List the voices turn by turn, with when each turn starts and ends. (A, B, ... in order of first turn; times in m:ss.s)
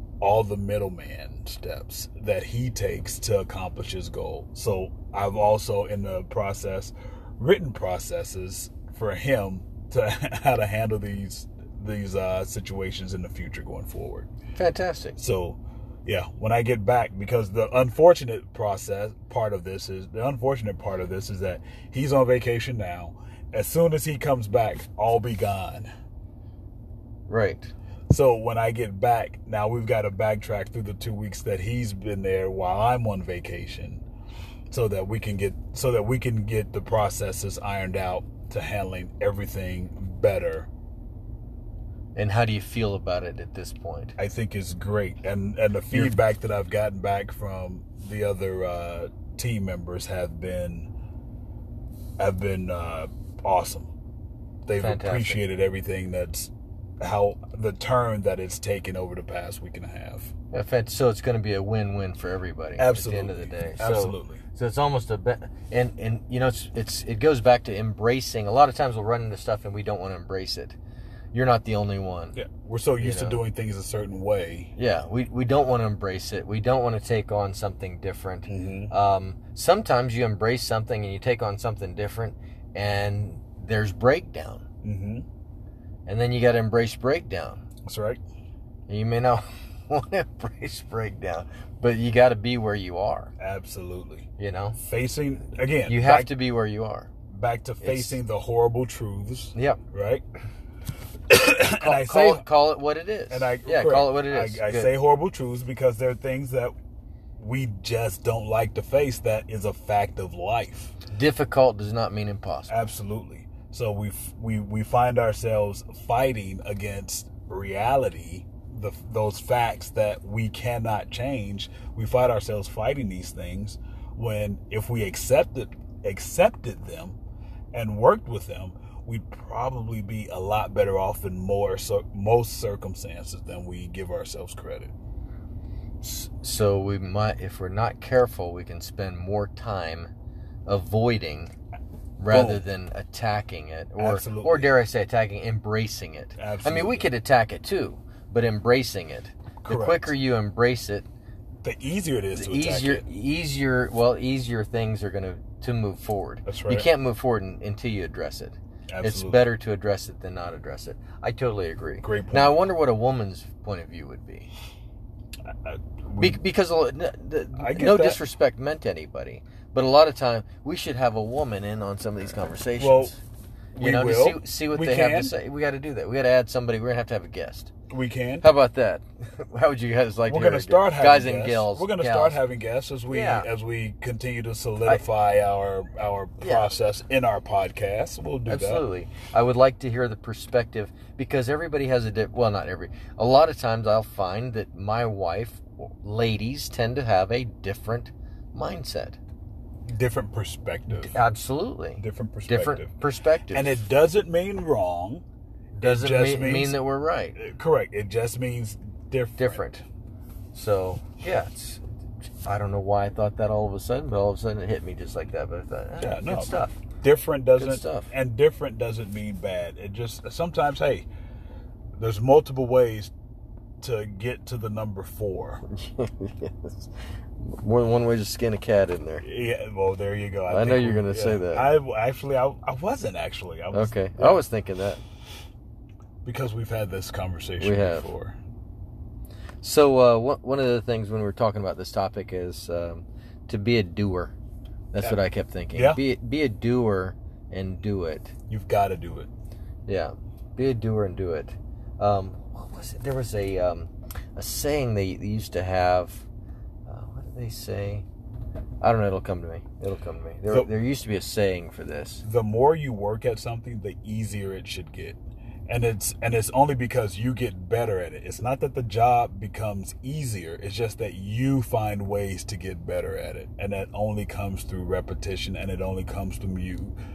0:00.2-0:14.3 A
0:14.5-0:15.2 B
0:15.2-0:25.9 A
0:27.3-0:27.7 B
0:28.1-0:34.0 A
0:34.7-0:40.7 A
0:42.1-0:44.1 B
0:44.2-0:50.9 A
0:52.2-0:53.9 A
0:54.6-1:00.3 A
0:54.8-0:55.4 B
1:00.5-1:10.8 B
1:02.8-1:04.4 A
1:11.3-1:12.4 B
1:12.4-1:14.7 A
1:13.0-1:13.4 B
1:14.8-1:24.6 B
1:18.5-1:18.9 A
1:24.8-1:25.2 A
1:26.0-1:27.6 B
1:27.8-1:28.2 A
1:28.9-1:33.3 B
1:33.4-1:36.3 A
1:34.4-1:34.8 B
1:35.9-1:37.1 B
1:37.3-1:40.2 A
1:37.8-1:38.2 B
1:39.5-1:39.8 B
1:41.3-1:42.4 A
1:41.7-1:44.9 B
1:43.3-1:46.7 A
1:47.4-1:50.9 A
1:51.1-1:52.7 B
1:52.7-2:07.2 A
2:07.7-2:14.9 A
2:16.0-2:20.1 B
2:20.6-2:21.5 B
2:22.2-2:31.0 B
2:22.3-2:22.6 A
2:24.0-2:24.8 A
2:26.4-2:27.1 A
2:29.6-2:30.1 A
2:31.6-2:33.0 A
2:32.3-2:44.5 B
2:36.4-2:36.9 A
2:38.9-2:39.4 A
2:42.0-2:42.6 A
2:45.5-2:46.4 A
2:46.2-2:53.2 B
2:47.6-2:48.2 A
2:52.8-2:53.1 A
2:53.7-2:55.3 A
2:53.8-2:57.7 B
2:57.9-2:58.5 A
2:58.4-3:02.4 B
3:00.3-3:08.8 A
3:03.1-3:03.5 B
3:06.4-3:06.7 B
3:08.5-3:19.2 B
3:19.8-3:21.2 A
3:20.9-3:23.8 B
3:22.0-3:22.9 A
3:23.5-3:25.2 A
3:25.7-3:27.4 B
3:25.8-3:26.8 A
3:27.3-3:29.6 A
3:29.4-3:29.8 B
3:30.5-3:31.8 B
3:32.4-3:36.8 B
3:36.0-3:41.1 A
3:37.6-3:38.1 B
3:42.0-3:43.1 A
3:43.8-3:45.6 A
3:45.7-3:49.2 B
3:49.2-3:54.4 A
3:50.5-3:51.7 B
3:53.7-3:55.0 B
3:56.2-3:58.4 A
3:57.6-3:58.1 B
3:59.6-4:04.3 B
4:04.9-4:08.3 B
4:05.7-4:06.0 A
4:08.5-4:09.3 A
4:09.9-4:16.2 B
4:16.9-4:18.0 B
4:18.8-4:22.2 B
4:22.2-4:36.9 A